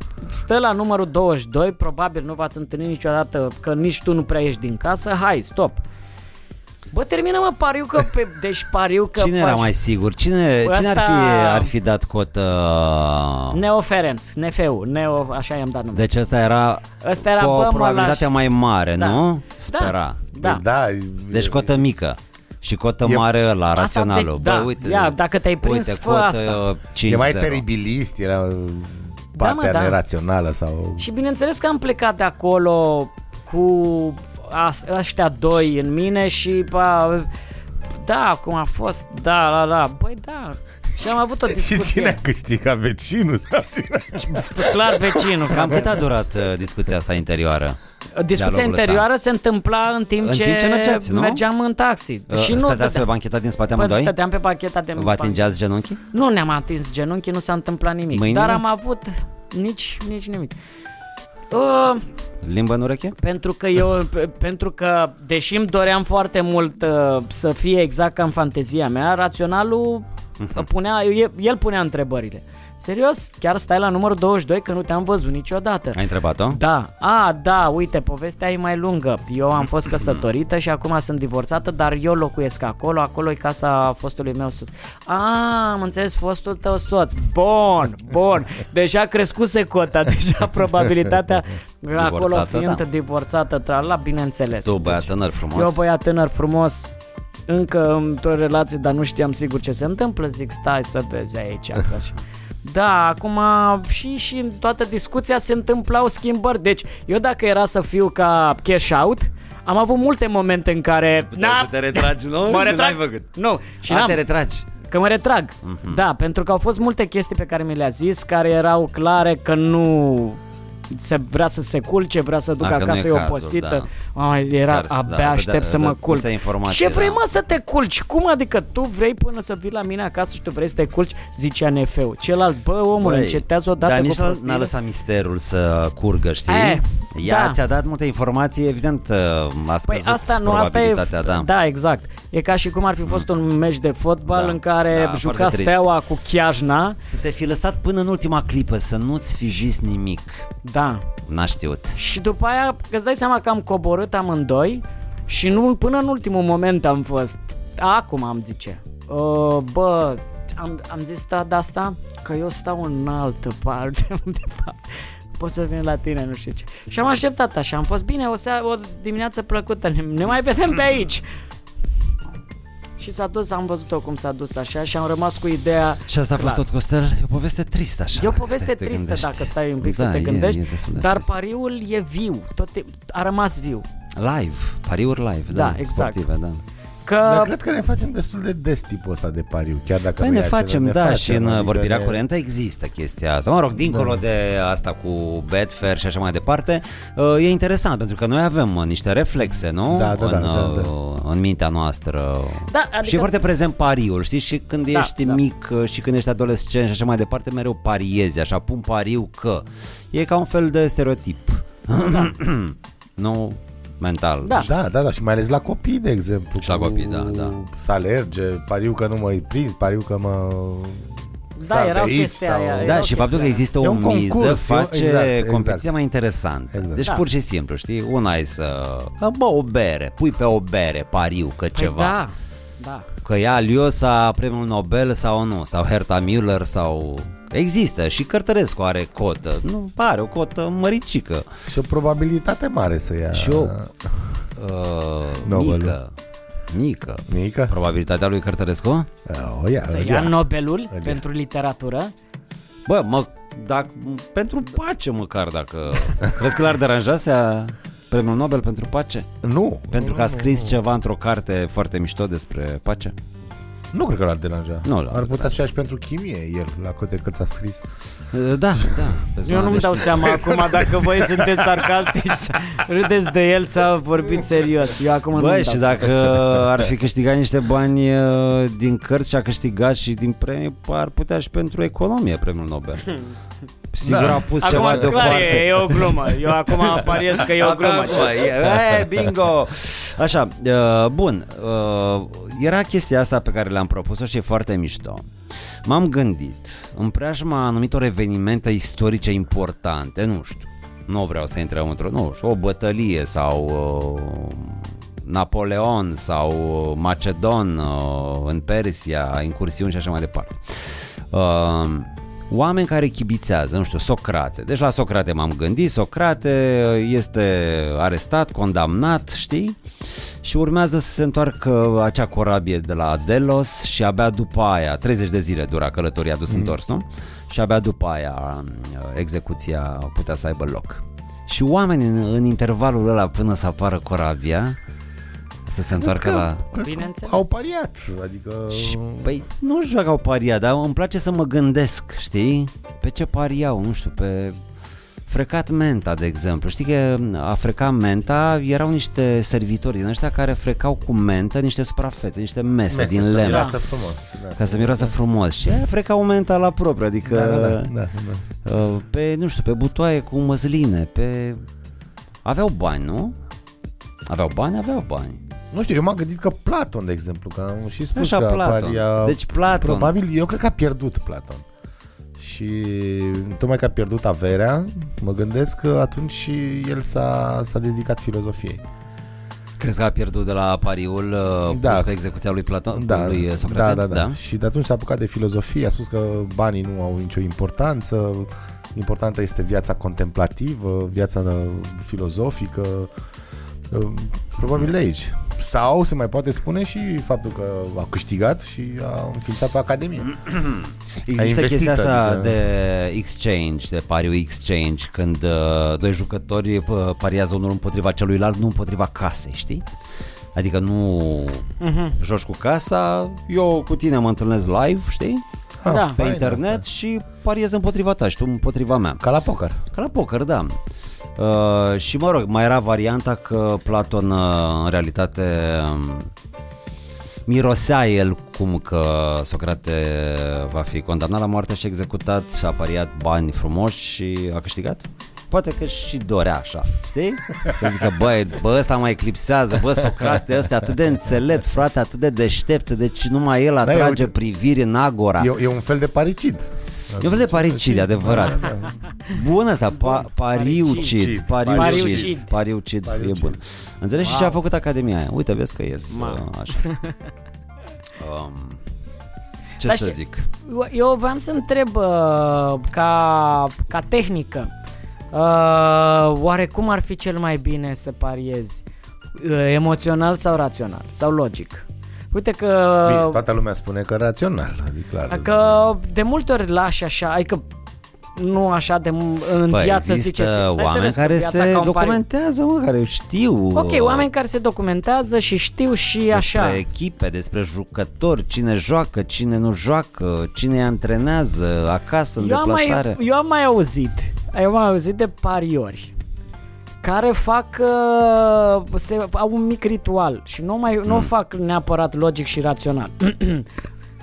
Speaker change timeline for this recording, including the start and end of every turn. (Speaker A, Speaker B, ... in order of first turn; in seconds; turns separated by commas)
Speaker A: 0.2-5.8, Speaker A: 6.9-9.7, Speaker B: 9.2-13.6, Speaker A: 10.6-11.7, Speaker A: 13.5-16.1, Speaker B: 15.9-20.3, Speaker A: 17.0-18.3, Speaker A: 19.7-20.6, Speaker C: 20.4-21.8, Speaker B: 21.3-27.6, Speaker A: 23.8-26.6, Speaker C: 27.1-31.1, Speaker A: 29.4-30.0, Speaker A: 31.0-37.3, Speaker A: 38.0-42.2, Speaker C: 41.5-45.6, Speaker A: 44.2-45.9, Speaker B: 45.5-47.8, Speaker A: 48.2-53.1, Speaker B: 48.3-49.1, Speaker B: 50.2-51.4, Speaker B: 52.3-54.1, Speaker A: 53.8-55.4, Speaker B: 55.0-56.0, Speaker A: 56.1-60.5, Speaker B: 58.1-58.6, Speaker A: 61.5-62.0, Speaker B: 62.4-63.2, Speaker A: 63.2-76.0, Speaker B: 70.4-70.7, Speaker B: 76.0-76.6, Speaker A: 76.5-96.9, Speaker B: 92.0-92.8, Speaker B: 94.7-95.8, Speaker A: 97.5-120.4, Speaker B: 111.3-113.3, Speaker B: 113.8-114.7, Speaker B: 115.6-116.0, Speaker A: 120.9-134.7, Speaker B: 122.6-123.8, Speaker B: 124.7-127.2, Speaker B: 133.0-141.5, Speaker A: 136.5-137.6, Speaker A: 139.9-147.0, Speaker B: 144.3-145.9, Speaker B: 147.1-150.5, Speaker A: 150.6-151.1, Speaker B: 151.3-152.0, Speaker A: 152.0-164.8, Speaker A: 165.4-171.3, Speaker A: 173.0-176.6, Speaker B: 176.1-181.3, Speaker A: 178.2-183.8, Speaker B: 184.2-186.6, Speaker A: 185.5-186.2, Speaker A: 187.1-187.5, Speaker C: 187.2-192.2, Speaker B: 190.2-214.7, Speaker C: 193.8-194.2, Speaker C: 199.9-200.9, Speaker A: 202.7-203.3, Speaker A: 204.9-205.4, Speaker A: 212.1-212.3, Speaker A: 214.4-214.7, Speaker C: 214.6-221.1, Speaker B: 216.6-217.6, Speaker A: 221.6-223.7, Speaker C: 221.6-223.0, Speaker B: 222.8-232.2, Speaker C: 223.8-225.9, Speaker C: 226.7-227.0, Speaker A: 231.8-233.1, Speaker B: 233.2-241.5, Speaker C: 241.7-244.1, Speaker B: 243.3-243.8, Speaker B: 244.6-246.1, Speaker C: 245.4-246.0, Speaker B: 246.7-249.1, Speaker C: 247.3-247.7, Speaker C: 249.3-250.4, Speaker A: 249.8-252.1, Speaker C: 250.9-251.2, Speaker B: 252.9-259.3, Speaker C: 259.4-260.8, Speaker B: 259.9-263.2, Speaker C: 263.9-267.9, Speaker B: 264.8-265.5, Speaker B: 268.3-270.7, Speaker C: 268.8-269.1, Speaker A: 269.4-276.3, Speaker C: 270.4-271.6, Speaker B: 275.3-283.1, Speaker B: 283.9-286.1, Speaker C: 284.0-286.1, Speaker A: 284.6-288.5, Speaker B: 287.4-295.3, Speaker B: 295.8-319.8, Speaker B: 320.4-334.8, Speaker B: 335.7-336.6, Speaker C: 335.9-339.4, Speaker A: 336.8-337.5, Speaker B: 338.7-344.6, Speaker B: 345.3-353.7, Speaker C: 352.9-355.1, Speaker A: 353.5-353.8, Speaker B: 354.6-357.9, Speaker C: 357.3-358.4, Speaker B: 358.6-361.6, Speaker B: 362.4-363.4, Speaker B: 364.3-365.4, Speaker C: 365.7-371.6, Speaker B: 368.1-370.1, Speaker C: 372.4-378.8, Speaker B: 379.8-384.4, Speaker C: 381.7-382.2, Speaker C: 382.9-393.1, Speaker C: 393.9-400.4, Speaker B: 400.4-409.8, Speaker C: 401.3-402.6, Speaker B: 410.6-415.4, Speaker A: 411.8-412.1, Speaker C: 415.8-416.8, Speaker A: 415.9-416.2, Speaker B: 416.1-419.2, Speaker C: 419.2-419.8, Speaker B: 419.9-420.8, Speaker B: 421.4-426.3, Speaker B: 427.5-445.5, Speaker C: 443.8-444.3, Speaker C: 445.4-449.0, Speaker B: 447.2-448.7, Speaker B: 449.3-456.8, Speaker A: 450.1-451.1, Speaker C: 451.0-452.4, Speaker A: 451.7-452.5, Speaker C: 453.1-453.6, Speaker A: 454.2-454.6, Speaker A: 456.1-457.1, Speaker B: 458.2-458.8, Speaker B: 459.8-460.5, Speaker A: 459.8-464.7, Speaker A: 465.3-468.8, Speaker A: 469.4-473.4, Speaker C: 473.1-475.6, Speaker A: 475.3-477.6, Speaker A: 478.4-482.2, Speaker B: 479.7-484.3, Speaker A: 483.8-486.8, Speaker B: 486.3-493.2, Speaker A: 492.4-496.1, Speaker A: 497.0-503.7